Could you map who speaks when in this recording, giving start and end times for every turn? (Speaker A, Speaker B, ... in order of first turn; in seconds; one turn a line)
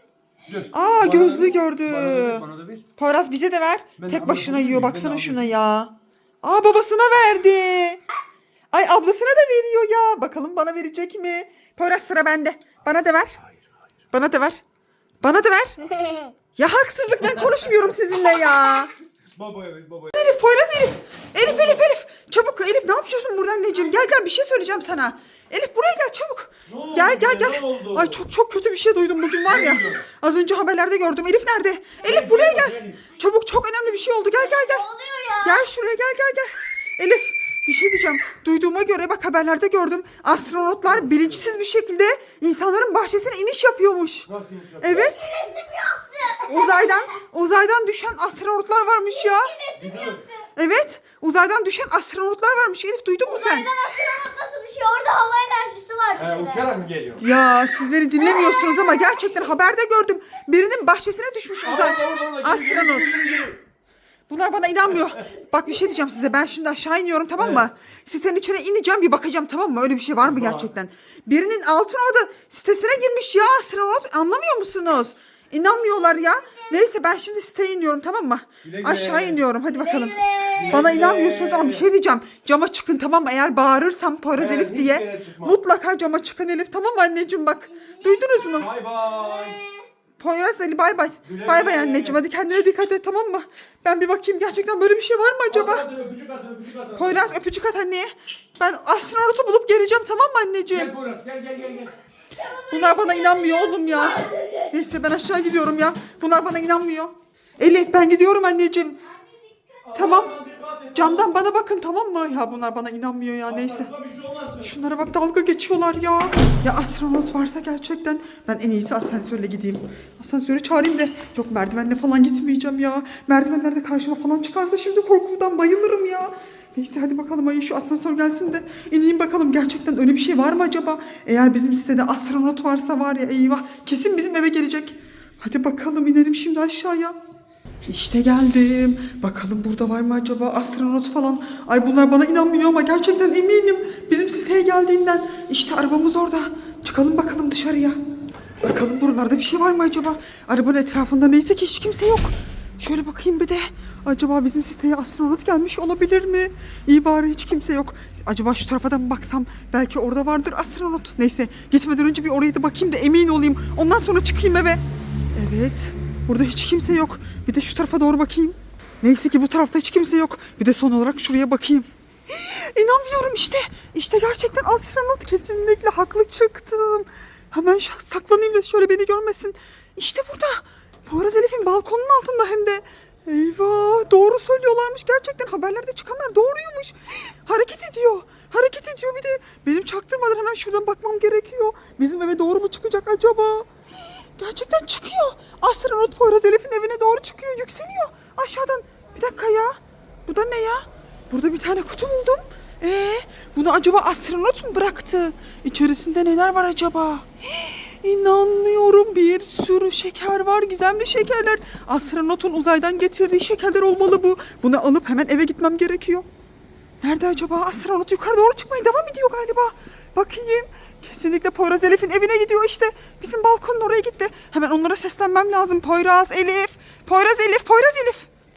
Speaker A: 0.5-2.9
Speaker B: 0.7-2.4
Speaker B: 3.0-8.0
Speaker A: 4.0-5.5
Speaker B: 8.7-13.4
Speaker B: 14.1-14.6
Speaker B: 15.2-15.8
Speaker B: 16.6-18.9
Speaker A: 17.2-17.5
Speaker A: 19.3-20.2
Speaker B: 20.1-34.8
Speaker A: 21.4-21.9
Speaker A: 26.7-28.2
Speaker A: 29.4-30.1
Speaker A: 32.0-33.0
Speaker C: 34.2-35.7
Speaker B: 35.4-44.3
Speaker A: 40.8-41.5
Speaker A: 44.3-45.1
Speaker B: 44.8-45.3
Speaker C: 45.1-47.0
Speaker B: 46.5-49.5
Speaker C: 49.1-50.4
Speaker A: 49.8-50.2
Speaker B: 50.5-53.7
Speaker C: 53.2-56.7
Speaker A: 56.2-57.2
Speaker B: 57.2-63.1
Speaker C: 58.1-59.3
Speaker A: 61.6-63.6
Speaker B: 64.3-80.2
Speaker A: 64.9-65.2
Speaker A: 67.4-67.7
Speaker A: 70.2-70.7
Speaker C: 75.7-76.8
Speaker A: 78.6-79.4
Speaker C: 79.7-80.8
Speaker A: 80.6-81.9
Speaker B: 80.7-88.7
Speaker A: 84.3-85.6
Speaker C: 87.7-89.8
Speaker A: 88.5-89.6
Speaker B: 90.2-95.8
Speaker A: 91.2-92.2
Speaker A: 95.5-97.4
Speaker B: 97.0-100.9
Speaker A: 100.7-101.9
Speaker C: 102.4-104.8
Speaker B: 102.7-109.0
Speaker C: 109.2-109.5
Speaker A: 109.8-111.3
Speaker B: 109.9-110.3
Speaker B: 110.9-113.9
Speaker A: 113.4-114.7
Speaker B: 114.6-137.1
Speaker B: 137.9-147.9
Speaker B: 148.6-164.8
Speaker B: 165.3-193.7
Speaker B: 194.4-216.2
Speaker B: 217.0-228.3